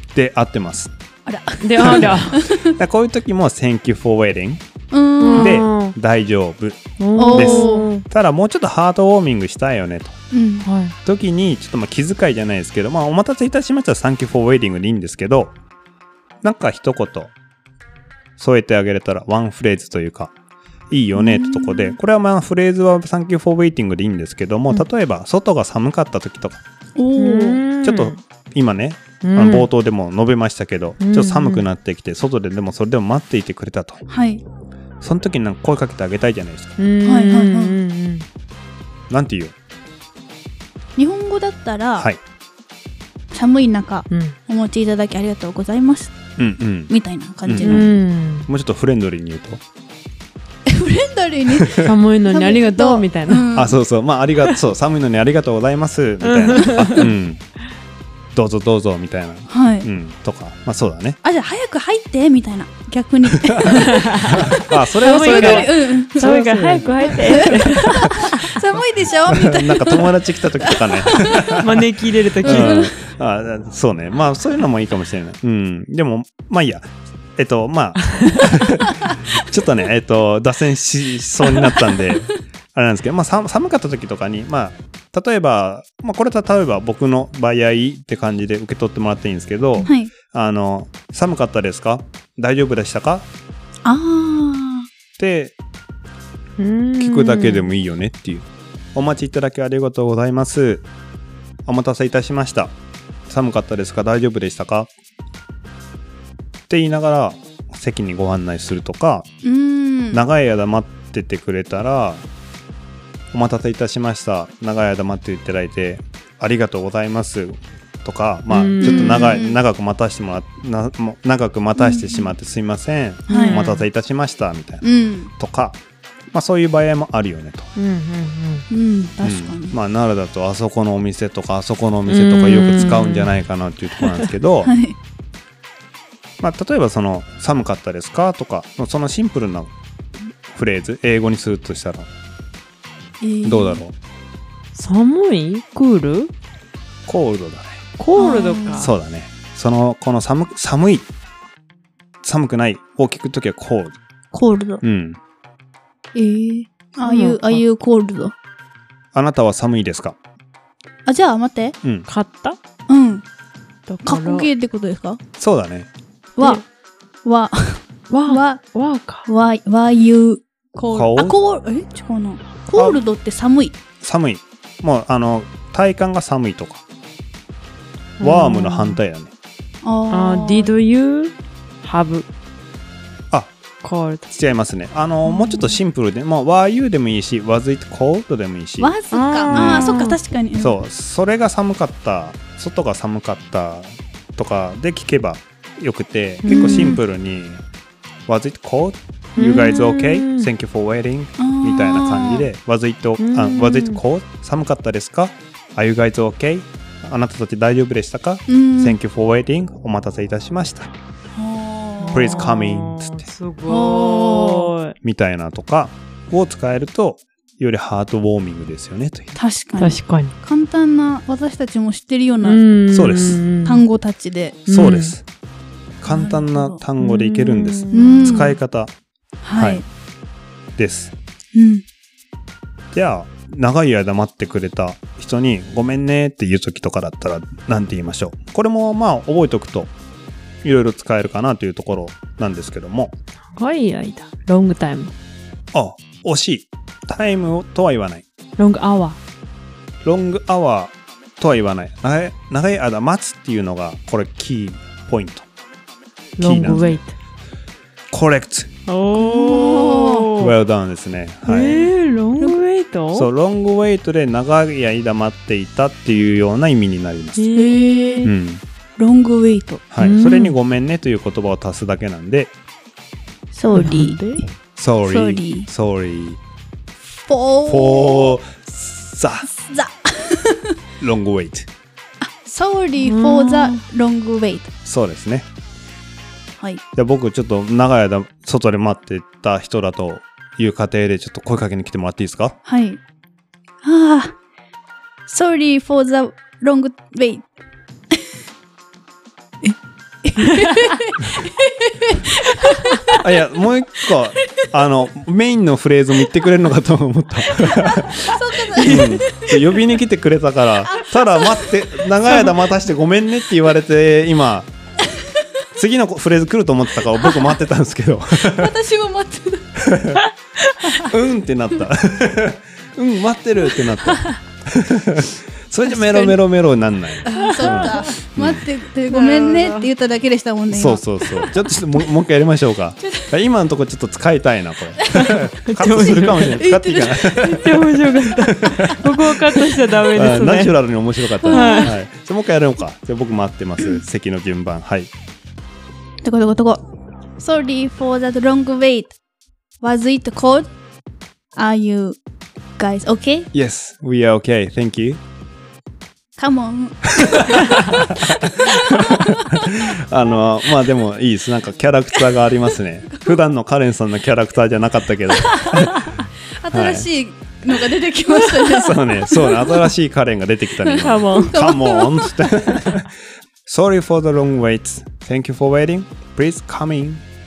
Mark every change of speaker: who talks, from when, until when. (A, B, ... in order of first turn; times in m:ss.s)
0:00.1-0:00.9 A
0:01.2-0:02.7 B
0:01.6-0:02.5 C
0:01.8-0:04.6 A
0:04.9-0:05.7 B
0:05.2-0:05.9 C
0:05.3-0:10.2 A
0:07.0-0:08.0 C
0:07.2-0:07.9 B
0:10.3-0:10.7 B
0:10.6-0:10.9 C
0:11.0-0:15.5 A
0:16.4-0:17.3 A
0:18.4-0:20.3 A
0:20.9-0:26.6 A
0:21.1-0:22.0 B
0:27.0-0:27.6 B
0:27.2-0:28.2 C
0:27.8-0:34.0 A
0:29.2-0:29.7 C
0:31.0-0:31.6 C
0:34.1-0:34.4 B
0:35.0-0:36.8 A
0:36.8-0:38.2 C
0:37.0-0:37.7 B
0:39.1-0:39.5 A
0:41.0-0:42.1 B
0:43.3-0:46.2 B
0:44.1-0:44.4 C
0:46.4-0:46.9 A
0:46.9-0:47.9 B
0:47.4-0:47.9 A
0:47.6-0:48.5 C
0:48.5-0:49.6 A
0:50.6-0:53.8 B
0:51.5-0:51.9 A
0:51.8-0:53.5 C
0:53.5-0:57.4 A
0:56.2-0:57.1 C
0:58.3-1:01.2 A
0:59.5-0:59.9 B
1:01.2-1:11.6 B
1:03.4-1:08.3 A
1:03.8-1:08.5 C
1:09.3-1:11.9 A
1:11.5-1:12.9 C
1:12.4-1:33.3 A
1:12.4-1:12.9 B
1:21.9-1:22.1 B
1:29.8-1:30.1 B
1:33.8-1:34.9 B
1:35.2-1:35.5 A
1:36.6-1:37.7 C
1:37.0-1:40.8 A
1:41.6-1:42.7 A
1:43.3-1:44.9 A
1:46.7-1:49.3 A
1:49.4-1:50.2 B
1:50.1-1:52.2 A
1:53.3-2:05.8 A
1:58.5-1:59.4 C
1:58.8-1:59.6 B
2:01.8-2:02.3 B
2:03.3-2:03.6 B
2:03.3-2:03.8 C
2:04.8-2:05.3 B
2:06.3-2:07.7 A
2:07.8-2:08.6 C
2:08.7-2:09.7 B
2:09.2-2:14.7 A
2:12.1-2:13.3 C
2:14.6-2:15.0 B
2:16.4-2:19.7 A
2:20.5-2:22.1 A
2:23.2-2:23.8 B
2:23.4-2:23.9 A
2:24.7-2:26.3 C
2:27.1-2:27.8 A
2:28.0-2:28.9 C
2:28.2-2:28.8 B
2:28.8-2:31.1 A
2:32.2-2:34.0 A
2:34.3-2:34.8 B
2:34.8-2:35.2 A
2:36.1-2:38.3 B
2:37.0-2:37.6 C
2:39.1-2:40.2 A
2:41.0-2:41.7 B
2:42.1-2:42.6 C
2:42.9-2:43.2 B
2:43.9-2:44.5 C
2:44.0-2:45.2 B
2:45.4-2:45.9 A
2:46.4-2:46.6 B
2:47.2-2:48.6 B
2:48.1-2:49.2 C
2:49.2-2:53.8 B
2:50.9-2:51.4 A
2:52.8-2:53.0 A
2:54.0-2:56.8 A
2:58.2-2:59.0 C
2:58.2-2:59.3 A
2:59.8-3:00.7 B
3:00.1-3:02.2 C
3:03.8-3:04.2 C
3:04.3-3:08.9 A
3:08.8-3:10.8 B
3:09.1-3:10.2 C
3:09.5-3:10.0 A
3:10.6-3:17.6 A
3:16.4-3:17.0 C
3:16.4-3:17.0 B
3:18.3-3:30.9 A
3:19.4-3:20.5 C
3:21.4-3:22.5 B
3:23.2-3:24.0 C
3:28.5-3:29.0 B
3:31.4-3:32.5 B
3:32.0-3:34.9 C
3:32.1-3:33.3 A
3:33.7-3:34.7 B
3:35.0-3:39.4 A
3:39.4-3:42.6 B
3:39.8-3:40.3 C
3:42.4-3:43.8 C
3:42.9-3:43.4 A
3:43.6-3:44.6 B
3:44.7-3:45.1 C
3:44.7-3:45.2 A
3:46.0-3:48.9 A
3:46.0-3:46.8 B
3:47.0-3:48.5 C
3:47.9-3:48.6 B
3:49.4-3:49.8 B
3:49.5-3:49.8 A
3:50.8-3:51.1 A
3:51.5-3:51.8 B
3:52.9-3:59.9 A
4:00.6-4:03.1 A
4:03.5-4:05.1 C
4:05.7-4:08.2 A
4:08.6-4:09.2 C
4:10.0-4:15.4 A
4:16.4-4:17.1 C
4:16.4-4:17.0 A
4:18.1-4:18.7 A
4:18.9-4:20.5 C
4:19.1-4:20.3 B
4:20.4-4:21.9 A
4:21.4-4:23.3 C
4:23.1-4:27.4 A
4:27.4-4:28.3 C
4:27.5-4:28.3 B
4:28.2-4:28.6 A
4:29.0-4:29.8 B
4:29.9-4:32.5 A
4:30.0-4:30.6 C
4:33.5-4:34.2 B
4:33.7-4:34.4 C
4:34.8-4:36.4 A
4:35.0-4:35.7 B
4:37.2-4:38.4 B
4:37.6-4:39.5 A
4:39.5-4:40.7 B
4:41.0-4:41.7 A
4:42.2-4:44.7 B
4:43.0-4:43.8 C
4:44.8-4:45.5 A
4:47.0-4:52.6 A
4:52.6-4:53.0 B
4:53.8-4:54.3 B
4:55.3-4:57.4 B
4:59.6-5:03.2 B
5:03.1-5:14.7 A
5:07.6-5:09.7 B
5:08.8-5:09.2 C
5:10.9-5:11.7 B
5:15.8-5:18.7 A
5:18.4-5:19.7 B
5:19.8-5:20.2 A
5:21.0-5:28.6 A
5:25.8-5:26.4 B
5:27.2-5:31.4 B
5:27.3-5:28.1 C
5:29.1-5:29.9 C
5:30.7-5:37.9 A
5:33.0-5:33.3 B
5:35.2-5:36.6 C
5:36.5-5:38.3 B
5:37.4-5:40.8 C
5:38.5-5:39.3 A
5:40.1-5:45.1 A
5:41.4-5:41.9 C
5:41.4-5:41.9 B
5:46.2-5:46.8 B
5:47.4-5:49.2 B
5:49.8-5:50.7 B
5:51.5-5:52.2 B
5:52.8-5:53.5 B
5:53.5-5:55.2 A
5:56.4-5:57.8 B
5:57.2-6:07.1 A
5:58.3-5:59.7 B
6:05.4-6:09.9 B
6:08.6-6:13.1 A
6:10.8-6:12.8 B
6:11.0-6:11.6 C
6:13.6-6:17.2 A